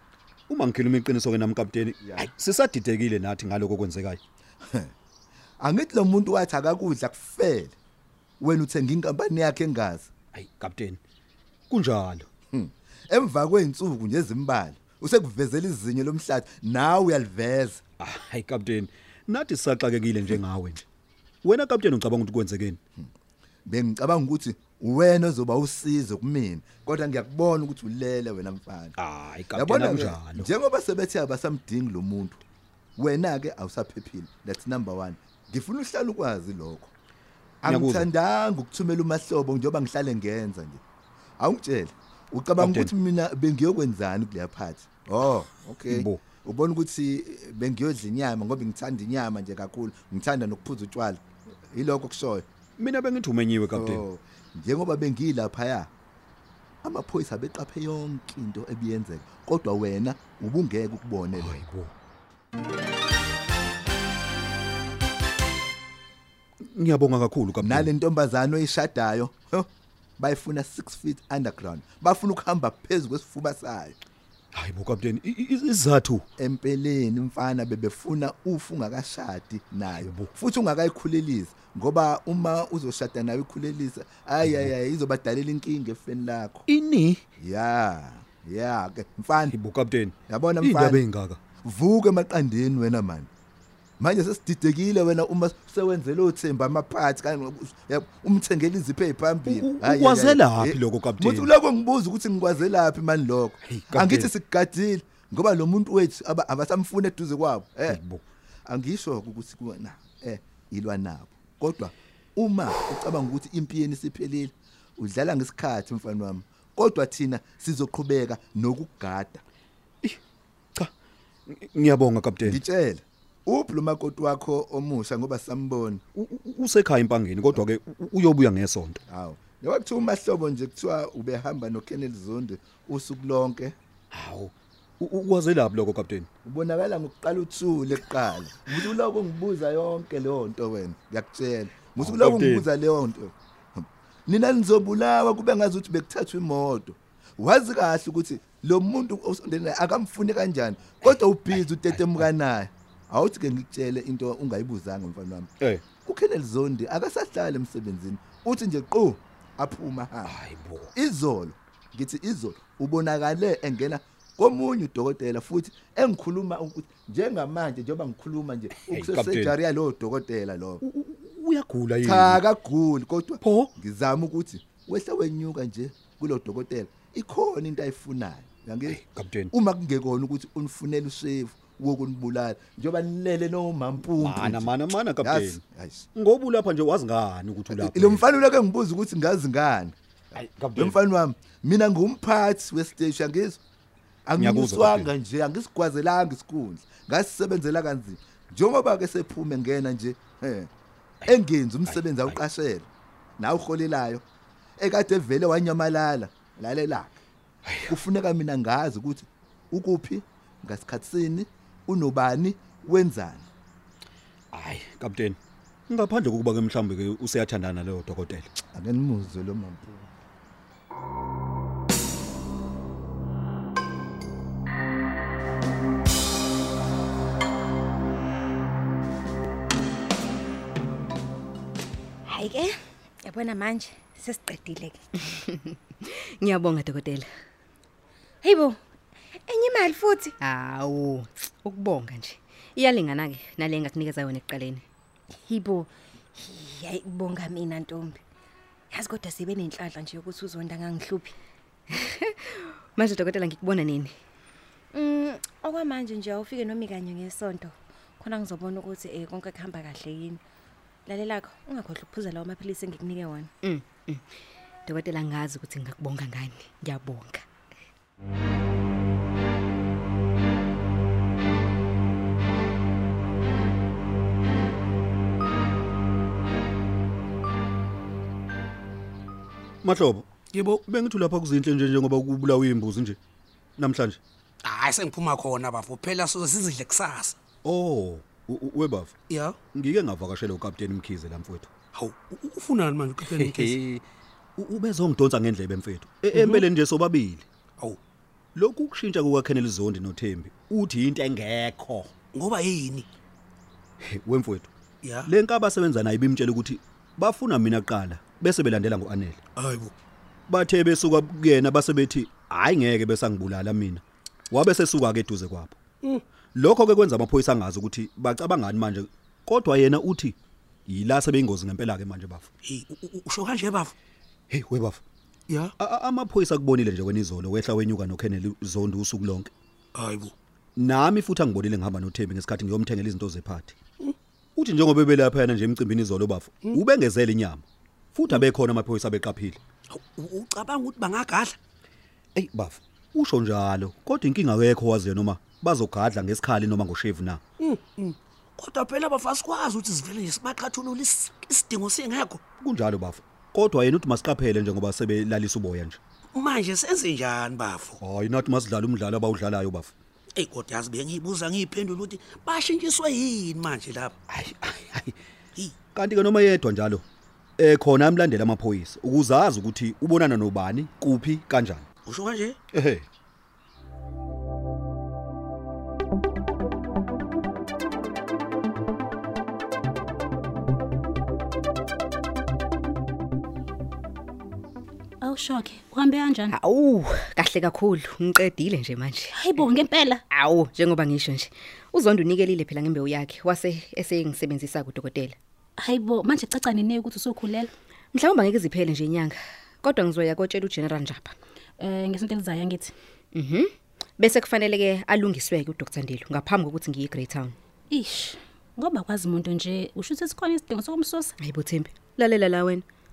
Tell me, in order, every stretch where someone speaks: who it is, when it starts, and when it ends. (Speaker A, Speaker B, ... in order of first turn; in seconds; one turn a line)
Speaker A: 0.5-4.2
Speaker B: 2.0-2.3
Speaker B: 5.6-7.7
Speaker B: 8.4-10.1
Speaker A: 10.3-11.0
Speaker A: 11.7-12.3
Speaker B: 12.5-17.8
Speaker A: 18.0-20.9
Speaker A: 21.4-22.8
Speaker B: 23.6-28.9
Speaker A: 29.0-30.5
Speaker B: 29.5-32.4
Speaker B: 33.0-36.9
Speaker B: 37.6-40.8
Speaker A: 37.6-38.1
Speaker B: 41.4-51.2
Speaker A: 42.6-42.9
Speaker A: 46.0-46.2
Speaker B: 51.7-52.4
Speaker A: 52.8-54.0
Speaker B: 53.7-55.9
Speaker B: 56.8-61.6
Speaker A: 61.4-61.9
Speaker A: 66.7-67.9
Speaker B: 67.6-69.7
Speaker B: 70.2-74.0
Speaker A: 74.5-76.2
Speaker B: 76.4-86.7
Speaker A: 80.0-80.3
Speaker A: 86.7-87.2
Speaker B: 87.4-89.5
Speaker A: 89.5-91.4
Speaker B: 90.3-91.0
Speaker B: 91.6-93.3
Speaker B: 94.0-108.0
Speaker A: 99.5-101.5
Speaker A: 103.6-104.3
Speaker A: 108.0-108.2
Speaker B: 108.7-119.4
Speaker A: 121.5-122.6
Speaker B: 122.4-126.0
Speaker A: 126.2-129.0
Speaker B: 129.1-133.7
Speaker A: 134.1-136.3
Speaker B: 136.4-143.3
Speaker A: 142.0-142.7
Speaker B: 144.3-160.3
Speaker A: 155.6-155.8
Speaker A: 160.2-160.9
Speaker B: 160.9-170.8
Speaker A: 168.8-169.6
Speaker A: 170.8-172.4
Speaker B: 172.0-179.0
Speaker A: 173.4-173.7
Speaker A: 178.9-179.5
Speaker B: 179.5-186.1
Speaker A: 184.2-185.6
Speaker A: 186.1-188.2
Speaker B: 187.7-189.9
Speaker A: 190.3-190.9
Speaker B: 190.8-193.6
Speaker B: 194.2-200.7
Speaker A: 194.4-195.1
Speaker B: 201.2-202.9
Speaker B: 203.4-204.2
Speaker B: 204.8-207.1
Speaker B: 207.8-213.4
Speaker A: 214.5-218.5
Speaker B: 218.7-220.0
Speaker C: 232.2-235.1
Speaker D: 235.5-237.3
Speaker C: 238.4-238.8
Speaker C: 239.4-240.3
Speaker D: 240.4-244.8
Speaker C: 245.3-248.2
Speaker C: 248.9-251.3
Speaker D: 252.0-252.3
Speaker D: 252.9-254.1
Speaker C: 254.9-260.4
Speaker C: 261.1-263.5
Speaker D: 263.6-264.2
Speaker D: 264.9-267.4
Speaker A: 279.8-280.3
Speaker E: 280.5-280.8
Speaker A: 280.9-283.2
Speaker A: 283.8-284.2
Speaker E: 284.6-287.4
Speaker A: 287.6-289.1
Speaker E: 289.3-289.6
Speaker A: 289.7-291.7
Speaker E: 291.9-294.0
Speaker A: 293.4-293.8
Speaker A: 294.6-297.4
Speaker E: 296.3-296.6
Speaker A: 298.6-302.1
Speaker E: 302.3-303.1
Speaker A: 304.0-304.7
Speaker E: 305.0-305.3
Speaker A: 305.2-309.4
Speaker E: 309.6-309.9
Speaker A: 310.5-315.8
Speaker A: 316.5-320.4
Speaker A: 320.9-322.4
Speaker E: 322.6-323.9
Speaker A: 324.5-325.0
Speaker E: 325.5-325.7
Speaker A: 325.8-329.5
Speaker E: 329.9-330.3
Speaker A: 330.8-333.8
Speaker A: 334.6-337.6
Speaker A: 338.1-339.6
Speaker E: 339.9-341.6
Speaker A: 342.3-347.4
Speaker E: 347.6-352.4
Speaker A: 352.6-356.0
Speaker E: 356.3-358.0
Speaker A: 358.0-359.9
Speaker E: 360.4-364.1
Speaker A: 364.3-365.1
Speaker A: 365.9-367.0
Speaker A: 367.6-371.9
Speaker E: 372.1-372.6
Speaker A: 372.7-373.0
Speaker F: 385.2-386.5
Speaker D: 386.5-389.4
Speaker F: 389.3-390.2
Speaker D: 390.3-395.4
Speaker F: 395.8-397.7
Speaker D: 398.1-401.3
Speaker F: 401.8-402.9
Speaker D: 403.3-407.6
Speaker F: 407.9-411.3
Speaker D: 411.4-412.8